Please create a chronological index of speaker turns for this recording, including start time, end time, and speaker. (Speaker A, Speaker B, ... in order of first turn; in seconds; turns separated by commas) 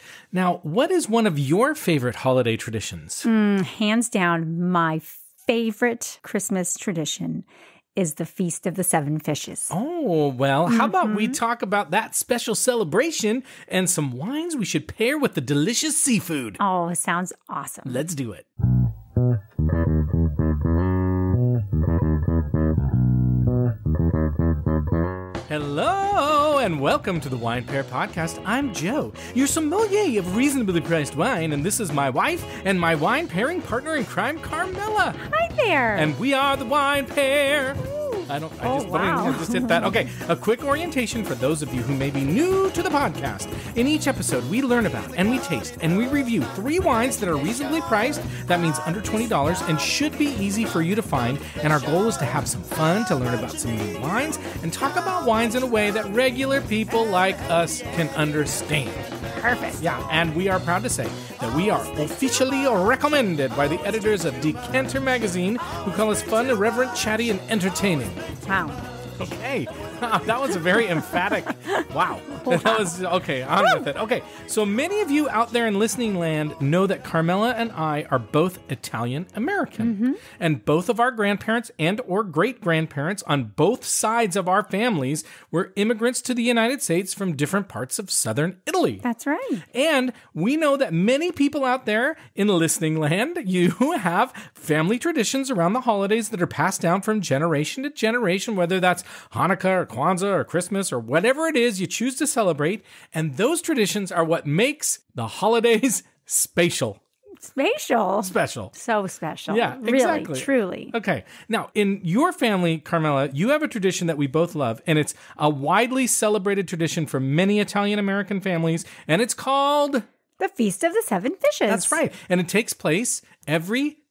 Speaker A: 0.3-3.2, Speaker B: 3.2-9.7, Speaker A: 9.7-16.6, Speaker B: 10.7-11.4, Speaker B: 16.6-18.0, Speaker A: 17.9-18.4, Speaker A: 25.5-35.2, Speaker B: 35.2-36.1, Speaker A: 35.9-59.1, Speaker B: 37.8-40.0, Speaker B: 59.4-59.8, Speaker A: 59.8-68.3, Speaker B: 68.4-68.8, Speaker A: 69.2-89.0, Speaker B: 70.8-73.0, Speaker B: 73.6-73.8, Speaker B: 79.8-80.2, Speaker B: 89.0-89.6, Speaker A: 89.7-107.0, Speaker B: 107.4-110.9, Speaker A: 108.2-108.7, Speaker A: 109.5-120.0, Speaker B: 120.4-122.0, Speaker A: 121.7-124.0